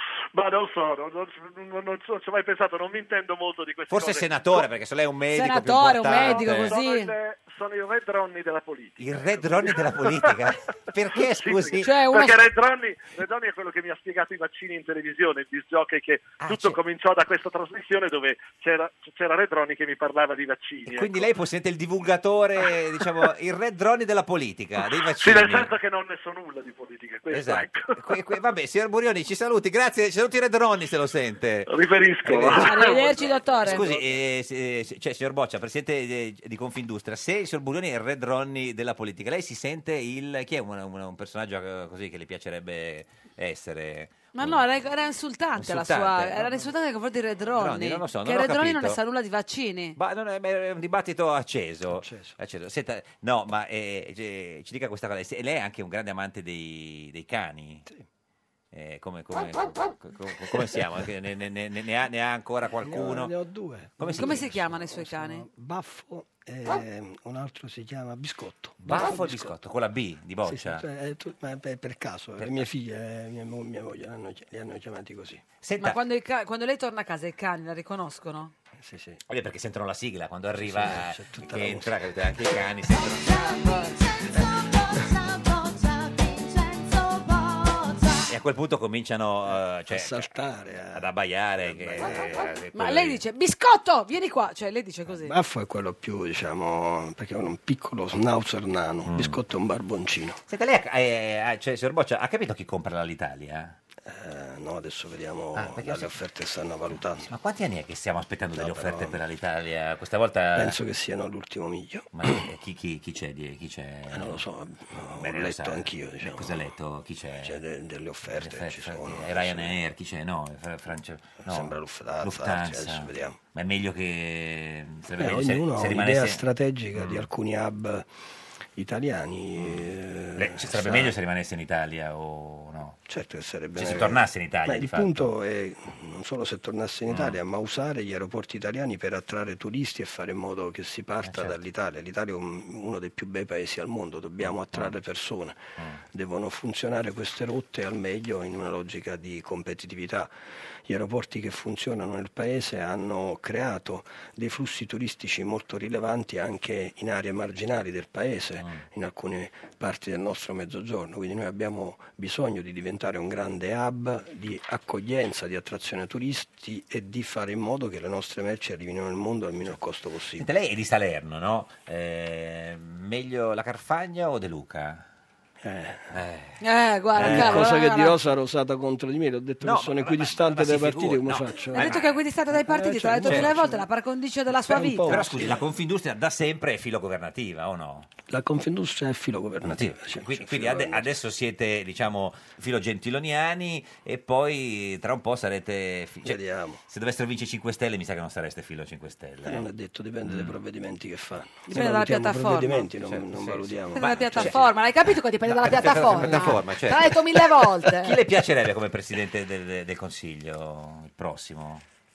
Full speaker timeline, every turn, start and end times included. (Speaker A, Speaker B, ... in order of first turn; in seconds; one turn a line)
Speaker A: 0.3-4.7
Speaker B: 3.9-6.8
Speaker C: 5.3-7.1
Speaker A: 6.1-10.4
Speaker B: 9.0-12.0
Speaker A: 11.2-21.3
Speaker C: 11.8-12.4
Speaker B: 16.4-16.8
Speaker B: 20.9-25.7
Speaker A: 25.1-28.0
Speaker B: 27.3-31.7
Speaker A: 31.7-34.1
Speaker B: 32.2-32.9
Speaker C: 32.5-33.9
Speaker B: 33.6-44.7
Speaker C: 44.3-50.0
Speaker B: 45.6-46.6
Speaker B: 47.5-49.0
Speaker B: 50.0-57.9
Speaker D: 51.9-52.4
Speaker B: 58.7-63.3
Speaker D: 62.8-69.5
Speaker B: 64.0-64.6
Speaker C: 64.2-65.5
Speaker B: 68.8-70.8
Speaker D: 70.5-75.4
Speaker B: 72.4-72.6
Speaker B: 75.6-76.0
Speaker C: 75.8-78.5
Speaker D: 78.8-79.2
Speaker B: 79.3-83.5
Speaker D: 80.6-82.3
Speaker B: 88.3-90.4
Speaker D: 89.5-92.5
Speaker B: 90.9-93.2
Speaker C: 92.7-95.3
Speaker D: 95.1-100.4
Speaker B: 99.1-99.4
Speaker B: 100.5-103.8
Speaker D: 104.0-107.3
Speaker B: 105.5-106.1
Speaker B: 107.2-110.8
Speaker D: 108.6-109.2
Speaker D: 110.5-112.4
Speaker B: 112.1-114.4
Speaker D: 114.1-116.7
Speaker B: 115.0-117.6
Speaker D: 117.4-119.8
Speaker B: 118.3-126.4
Speaker D: 121.5-123.4
Speaker D: 125.2-128.1
Speaker B: 127.0-127.3
Speaker D: 128.8-131.1
Speaker B: 129.6-133.0
Speaker D: 133.1-145.6
Speaker B: 133.8-135.3
Speaker B: 137.1-137.4
Speaker B: 141.2-141.6
Speaker B: 144.5-144.9
Speaker D: 146.1-150.3
Speaker D: 150.9-170.5
Speaker B: 170.4-175.0
Speaker D: 175.6-176.2
Speaker B: 176.1-176.6
Speaker C: 176.6-178.2
Speaker B: 177.2-177.7
Speaker D: 177.2-182.0
Speaker B: 179.6-182.2
Speaker C: 181.7-185.3
Speaker D: 182.5-183.8
Speaker B: 183.2-183.6
Speaker D: 184.7-185.7
Speaker B: 185.1-188.1
Speaker D: 188.3-191.1
Speaker B: 189.6-199.7
Speaker D: 196.2-196.8
Speaker D: 199.4-204.7
Speaker B: 200.2-200.6
Speaker C: 201.7-202.9
Speaker B: 203.0-204.7
Speaker C: 203.9-208.2
Speaker B: 205.6-211.8
Speaker D: 205.7-206.6